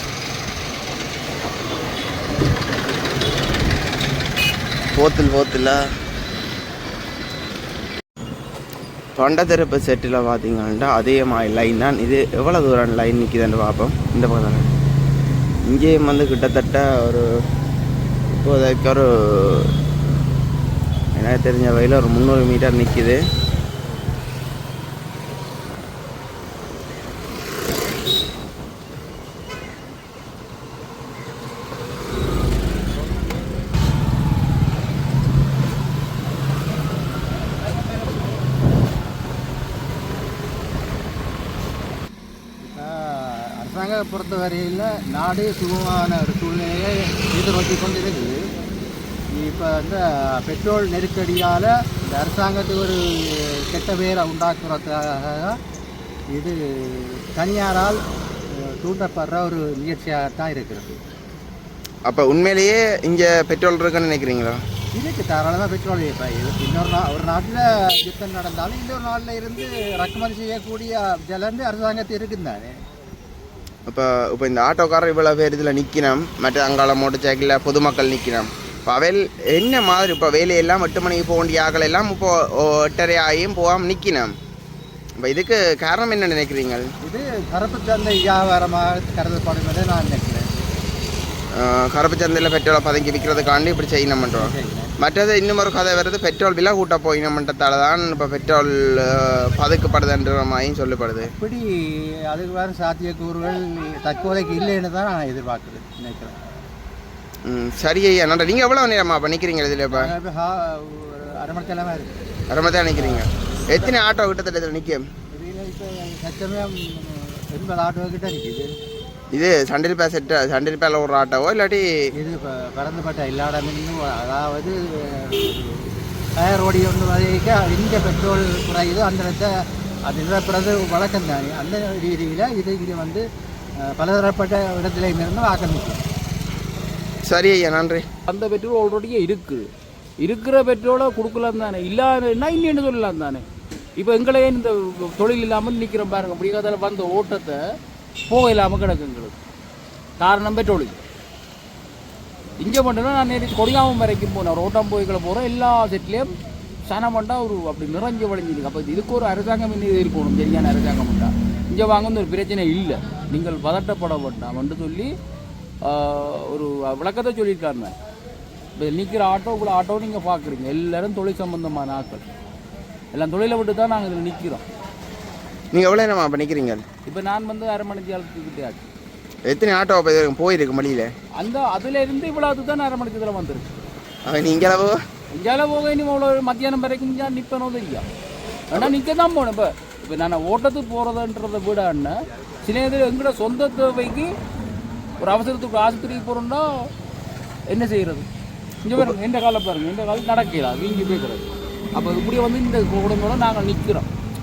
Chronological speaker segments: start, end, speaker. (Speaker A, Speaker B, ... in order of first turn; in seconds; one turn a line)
Speaker A: 4.9-5.8
Speaker A: 9.2-14.7
Speaker A: 15.7-17.2
Speaker A: 18.3-19.7
Speaker A: 21.1-23.2
Speaker B: 42.6-48.4
Speaker B: 49.4-55.6
Speaker B: 56.4-58.0
Speaker B: 58.8-61.0
Speaker A: 62.1-64.6
Speaker B: 65.0-72.7
Speaker A: 73.9-84.3
Speaker A: 85.2-86.8
Speaker B: 87.0-90.5
Speaker A: 91.6-101.3
Speaker B: 94.3-94.9
Speaker B: 101.2-101.7
Speaker B: 102.3-106.4
Speaker A: 107.5-110.1
Speaker B: 109.9-112.2
Speaker A: 112.5-115.0
Speaker B: 113.0-113.2
Speaker B: 115.3-118.7
Speaker A: 119.3-121.9
Speaker B: 122.2-129.5
Speaker B: 130.1-133.2
Speaker B: 133.9-136.0
Speaker A: 137.2-138.1
Speaker C: 138.3-139.7
Speaker C: 140.2-143.4
Speaker C: 144.0-147.6
Speaker C: 148.3-149.4
Speaker C: 150.2-151.0
Speaker C: 152.6-156.3
Speaker C: 156.9-165.1
Speaker C: 165.8-167.9
Speaker C: 168.8-172.3
Speaker C: 173.1-174.6
Speaker A: 175.7-176.8
Speaker C: 177.1-178.9
Speaker A: 179.5-181.1
Speaker C: 181.4-183.9
Speaker A: 184.3-185.0
Speaker C: 185.3-188.1
Speaker C: 188.7-194.3
Speaker C: 195.2-196.7
Speaker C: 197.7-198.2
Speaker C: 198.8-204.1